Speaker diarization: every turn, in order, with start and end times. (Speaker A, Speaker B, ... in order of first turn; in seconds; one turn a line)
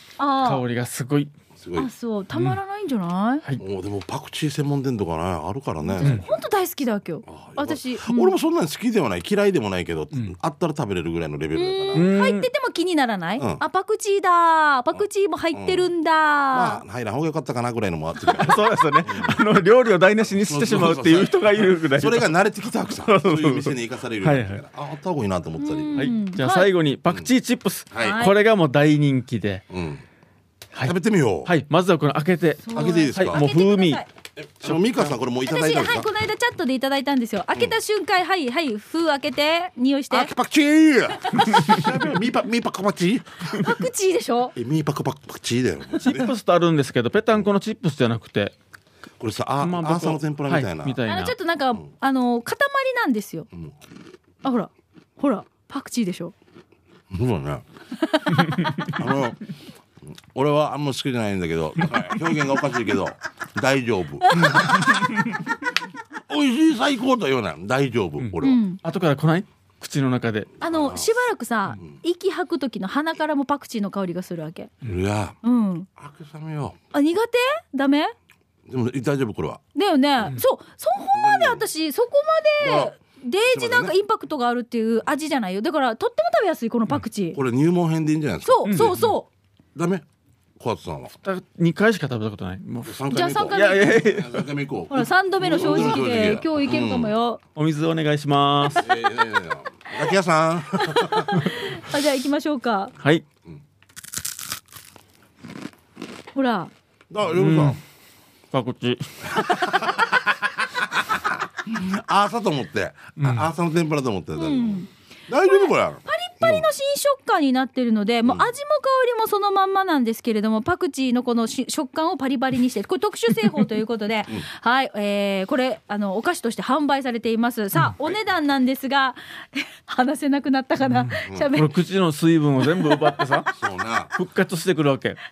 Speaker A: 0.2-0.6
Speaker B: 0.4-1.3
Speaker C: 1.6-1.9
Speaker A: 1.8-3.4
Speaker B: 2.3-2.6
Speaker C: 3.6-6.3
Speaker A: 5.8-8.3
Speaker C: 7.2-12.1
Speaker A: 11.5-16.8
Speaker B: 11.9-12.5
Speaker C: 13.4-13.6
Speaker C: 15.5-15.9
Speaker C: 16.5-19.4
Speaker B: 18.3-22.3
Speaker C: 20.3-26.1
Speaker B: 22.9-24.6
Speaker A: 25.6-26.7
Speaker B: 25.9-29.6
Speaker C: 27.9-28.2
Speaker A: 28.0-28.3
Speaker C: 29.7-30.0
Speaker B: 30.7-34.0
Speaker C: 30.8-31.5
Speaker A: 32.6-34.1
Speaker C: 32.7-33.4
Speaker C: 34.4-36.1
Speaker B: 34.6-35.1
Speaker A: 35.5-40.3
Speaker C: 40.1-43.8
Speaker A: 41.2-41.8
Speaker A: 43.6-44.5
Speaker C: 44.5-46.3
Speaker B: 46.0-48.5
Speaker C: 49.2-51.0
Speaker B: 49.6-51.3
Speaker A: 51.1-53.5
Speaker A: 54.4-56.3
Speaker C: 57.1-57.6
Speaker A: 58.0-58.7
Speaker C: 58.9-59.4
Speaker C: 60.1-65.1
Speaker A: 64.2-64.9
Speaker B: 64.3-65.3
Speaker C: 66.3-68.6
Speaker B: 68.2-70.5
Speaker A: 68.4-68.8
Speaker C: 70.6-71.2
Speaker A: 70.6-74.7
Speaker C: 74.8-75.4
Speaker A: 75.4-75.9
Speaker C: 76.0-76.8
Speaker A: 76.9-78.1
Speaker C: 78.7-79.6
Speaker A: 79.7-87.4
Speaker C: 81.1-81.6
Speaker C: 82.6-82.9
Speaker C: 83.5-83.9
Speaker C: 87.3-89.0
Speaker A: 88.4-89.3
Speaker B: 88.7-89.1
Speaker C: 89.7-90.0
Speaker C: 90.6-91.1
Speaker B: 91.2-94.4
Speaker C: 92.8-97.1
Speaker A: 93.1-94.0
Speaker A: 94.9-97.4
Speaker B: 97.5-98.9
Speaker C: 98.8-101.4
Speaker A: 100.8-102.9
Speaker B: 103.0-103.2
Speaker A: 106.3-106.7
Speaker C: 107.1-107.8
Speaker B: 107.2-107.8
Speaker B: 108.5-109.4
Speaker C: 109.3-116.7
Speaker B: 113.2-113.5
Speaker A: 114.3-114.9
Speaker A: 115.4-131.8
Speaker C: 118.2-118.5
Speaker B: 130.8-133.5
Speaker A: 132.7-133.4
Speaker C: 133.5-134.1
Speaker B: 134.1-135.2